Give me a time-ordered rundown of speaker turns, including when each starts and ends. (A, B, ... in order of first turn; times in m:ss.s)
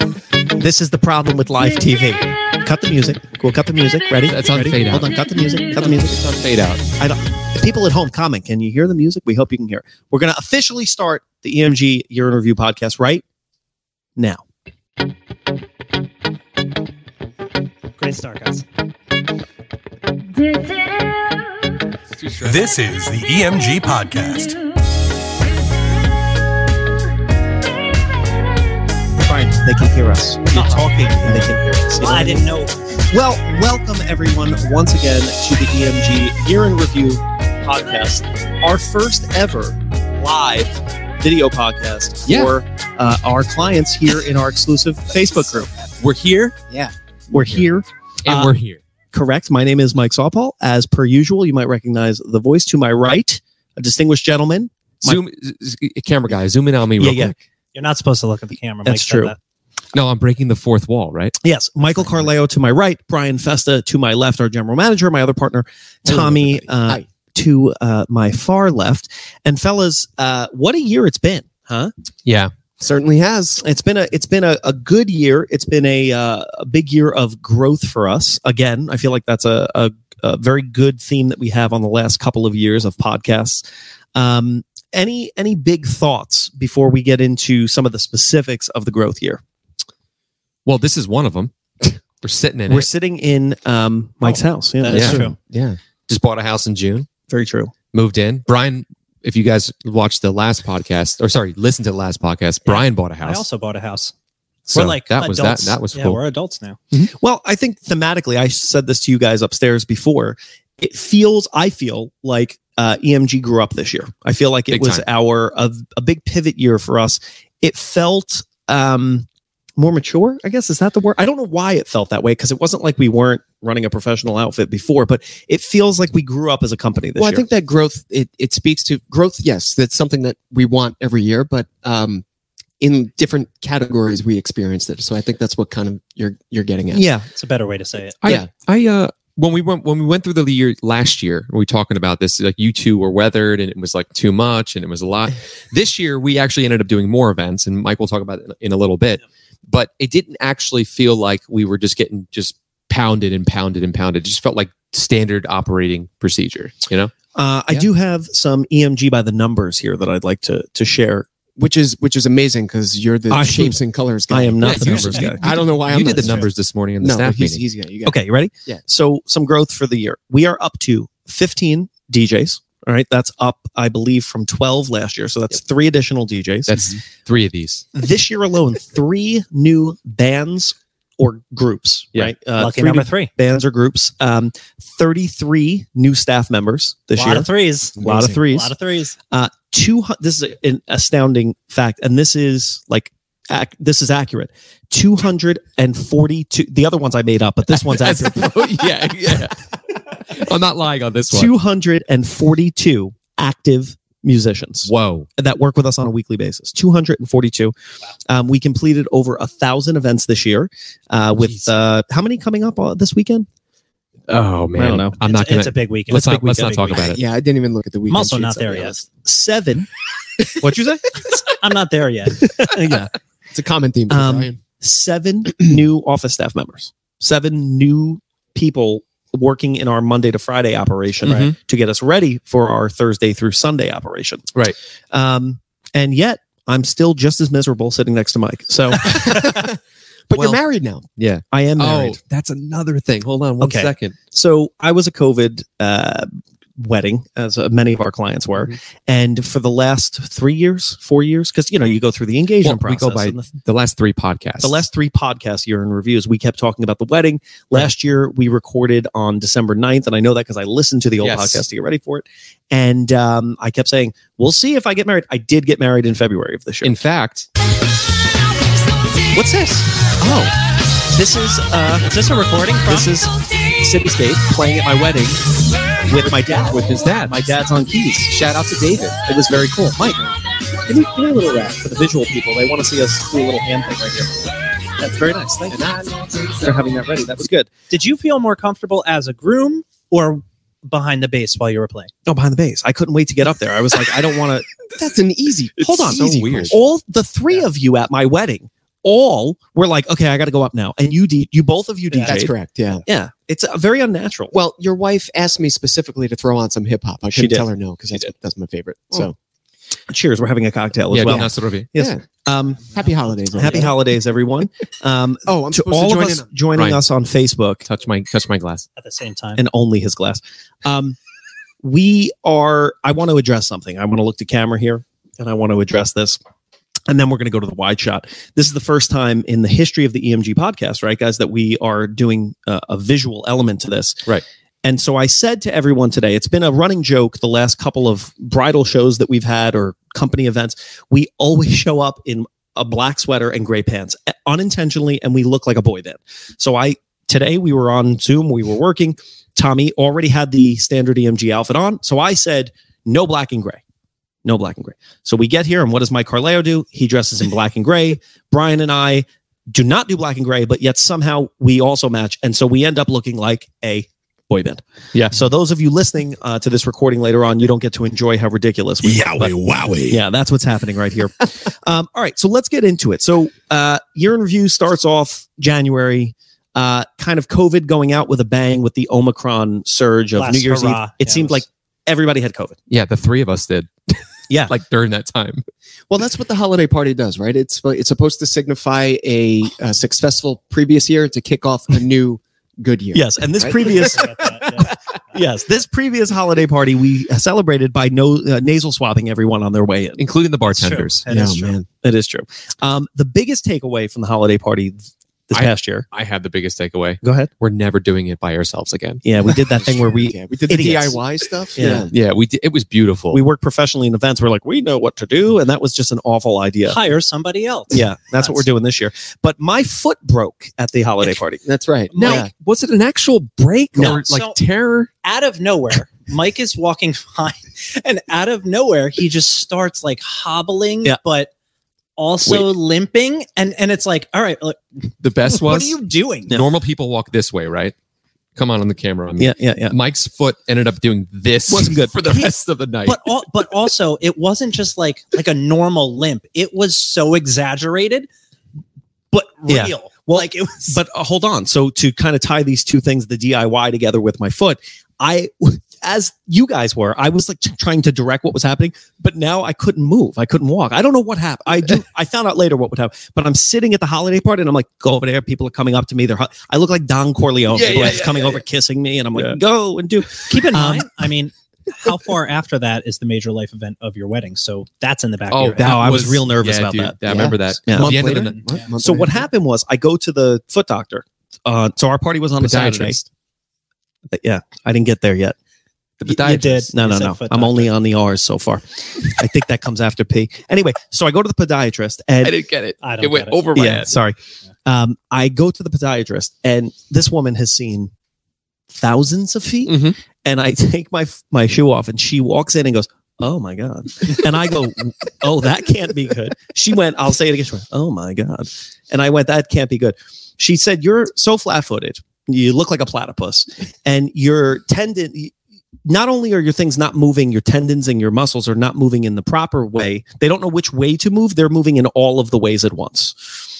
0:00.5-0:06.1 A
0:04.3-0:06.8 B
0:07.0-0:13.2 A
0:14.2-0:14.4 A
0:18.0-0:18.6 C
0:22.2-0:22.6 B
0:22.4-0:24.6 D
0:29.2-0:32.5 A
0:30.5-0:30.9 C
0:32.0-0:32.8 C
0:33.1-0:45.7 A
0:42.3-0:42.5 B
0:46.0-0:46.6 B
0:47.3-0:48.5 A
0:48.2-0:48.8 B
0:49.1-0:55.2 A
0:55.0-0:57.3 B
0:57.0-0:57.4 A
0:57.7-0:59.4 C
0:58.8-0:59.3 A
0:59.9-1:01.3 B
1:01.4-1:11.9 A
1:06.0-1:07.0 E
1:12.2-1:12.5 B
1:12.8-1:13.6 E
1:13.6-1:23.6 A
1:24.1-1:29.4 A
1:30.6-1:32.9 B
1:32.7-1:35.3 A
1:34.8-1:35.3 C
1:34.9-1:37.1 B
1:37.3-1:37.7 A
1:37.9-1:43.4 B
1:42.6-1:44.1 C
1:44.7-1:46.8 C
1:44.7-1:46.2 B
1:47.1-2:07.4 A
1:54.7-1:55.0 B
2:07.2-2:12.2 E
2:12.8-2:17.0 E
2:16.9-2:17.3 A
2:17.4-2:18.2 C
2:18.2-2:37.1 B
2:18.2-2:18.5 E
2:37.3-2:41.3 A
2:41.6-2:46.5 E
2:43.3-2:45.4 A
2:44.6-2:47.6 B
2:46.1-2:46.4 C
2:47.0-2:48.8 E
2:48.0-2:56.9 A
2:56.7-2:57.8 B
2:57.9-3:08.7 A
3:02.6-3:03.3 C
3:07.1-3:09.2 C
3:09.3-3:18.6 A
3:17.7-3:21.5 B
3:21.3-3:27.7 A
3:24.8-3:25.3 B
3:28.3-3:33.5 A
3:34.3-3:37.2 B
3:34.7-3:35.2 A
3:35.2-3:36.8 C
3:36.1-3:37.0 A
3:36.9-3:39.0 E
3:38.1-3:38.9 C
3:39.1-3:39.9 A
3:40.6-3:41.0 A
3:41.5-3:42.7 C
3:42.4-3:43.1 A
3:43.5-3:44.6 E
3:44.1-3:54.5 A
3:51.2-3:51.5 B
3:51.2-3:51.5 C
3:55.1-3:59.2 A
3:59.0-3:59.8 E
3:59.3-3:59.6 B
4:00.3-4:01.0 E
4:00.3-4:00.6 B
4:01.2-4:04.1 B
4:01.5-4:02.2 A
4:03.6-4:13.5 A
4:12.6-4:14.8 B
4:14.6-4:26.9 A
4:21.2-4:21.6 B
4:26.8-4:27.5 B
4:29.3-4:30.5 A
4:31.1-4:32.1 A
4:32.0-4:33.1 C
4:32.8-4:35.4 A
4:36.1-4:38.4 A
4:36.1-4:37.4 B
4:38.3-4:39.2 B
4:39.2-4:47.7 A
4:47.9-4:52.1 C
4:52.2-4:54.7 A
4:54.9-4:56.7 E
4:55.8-5:02.5 A
4:56.0-4:56.7 B
5:02.1-5:02.4 C
5:02.2-5:03.0 E
5:03.0-5:04.5 A
5:04.5-5:09.3 E
5:07.3-5:07.6 A
5:10.1-5:12.9 A
5:11.1-5:11.9 B
5:11.2-5:12.2 E
5:12.9-5:13.9 C
5:12.9-5:14.0 E
5:13.5-5:17.8 A
5:15.4-5:16.5 E
5:16.7-5:17.0 B
5:17.8-5:18.8 B
5:19.0-5:19.6 C
5:19.6-5:21.2 A
5:21.8-5:26.4 A
5:27.1-5:34.2 A
5:34.8-5:53.8 A
5:54.4-6:22.8 A
6:20.3-6:21.6 C
6:22.9-6:25.6 B
6:24.5-6:24.7 A
6:26.1-6:34.9 E
6:33.1-6:40.2 A
6:33.8-6:34.9 C
6:40.2-6:41.2 B
6:40.6-6:41.8 C
6:41.3-6:41.8 E
6:42.0-6:46.0 A
6:45.5-6:49.2 B
6:47.2-6:47.5 A
6:49.2-6:51.2 A
6:50.0-6:52.1 E
6:51.7-6:52.1 A
6:52.1-6:53.4 B
6:53.3-6:57.0 A
6:56.9-6:58.6 C
6:57.9-7:01.6 A
7:01.6-7:02.5 E
7:02.1-7:02.4 C
7:02.2-7:05.1 B
7:03.9-7:04.2 A
7:04.0-7:04.6 C
7:05.2-7:11.5 C
7:12.2-7:16.6 C
7:15.2-7:16.0 B
7:16.5-7:17.9 B
7:18.6-7:23.3 B
7:19.4-7:20.0 A
7:21.7-7:22.5 A
7:23.0-7:28.3 C
7:29.3-7:31.0 C
7:29.6-7:51.1 A
7:47.7-7:48.6 B
7:50.5-7:56.1 C
7:55.5-7:58.6 B
7:55.8-7:57.2 A
7:57.2-7:59.4 E
7:57.8-8:03.2 A
7:58.1-7:58.9 C
8:02.6-8:03.3 B
8:04.3-8:05.6 A
8:06.2-8:06.9 B
8:06.3-8:07.9 C
8:06.9-8:12.6 A
8:12.4-8:14.1 B
8:13.0-8:13.6 C
8:13.7-8:18.1 A
8:18.9-8:35.5 A
8:19.9-8:20.2 B
8:36.0-8:43.5 A